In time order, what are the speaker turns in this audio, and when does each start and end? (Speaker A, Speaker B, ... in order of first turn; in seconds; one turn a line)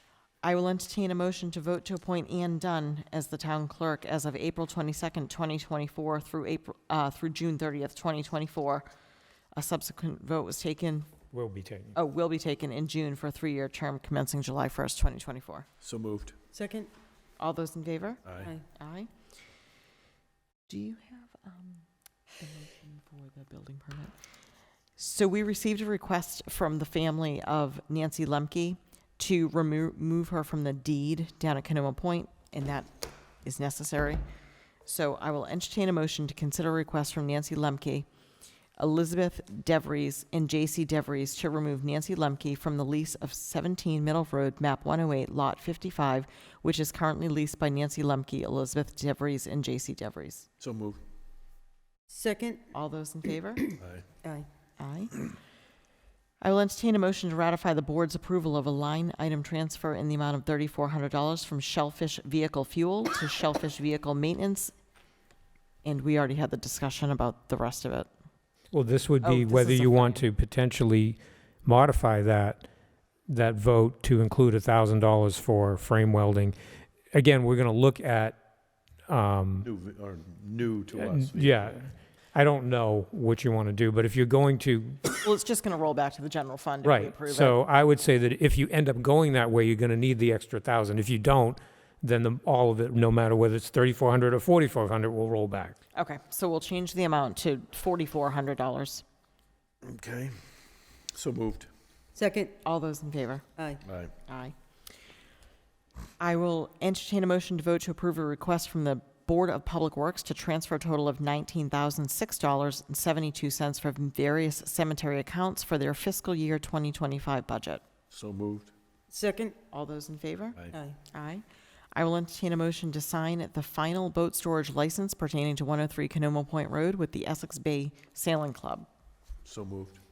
Speaker A: 0.4-8.9
Speaker A: 9.6-11.1
Speaker B: 11.3-12.0
Speaker A: 11.9-15.7
Speaker C: 15.8-16.4
Speaker D: 16.5-16.9
Speaker A: 17.4-19.1
Speaker C: 18.2-18.5
Speaker D: 18.4-18.6
Speaker A: 20.7-21.8
Speaker A: 22.4-24.1
Speaker A: 25.0-32.9
Speaker A: 33.4-34.2
Speaker A: 34.9-38.1
Speaker A: 38.8-50.5
Speaker C: 50.6-51.0
Speaker D: 52.1-52.7
Speaker A: 52.7-53.7
Speaker D: 53.6-54.5
Speaker C: 53.8-54.1
Speaker A: 54.8-55.2
Speaker A: 56.4-64.7
Speaker A: 65.8-68.1
Speaker B: 68.7-72.7
Speaker A: 69.2-70.3
Speaker B: 73.3-76.5
Speaker B: 77.1-78.4
Speaker B: 79.1-79.7
Speaker C: 79.6-81.9
Speaker B: 81.0-85.1
Speaker A: 85.2-87.6
Speaker B: 86.8-95.8
Speaker A: 96.0-99.0
Speaker C: 99.8-100.5
Speaker C: 101.1-101.7
Speaker D: 102.2-102.5
Speaker A: 102.6-103.5
Speaker D: 103.6-103.8
Speaker C: 103.8-104.1
Speaker A: 104.3-104.5
Speaker A: 106.2-117.8
Speaker C: 118.1-118.7
Speaker D: 119.1-119.6
Speaker A: 119.7-120.6
Speaker D: 120.7-121.0
Speaker A: 121.1-128.9
Speaker C: 129.4-130.0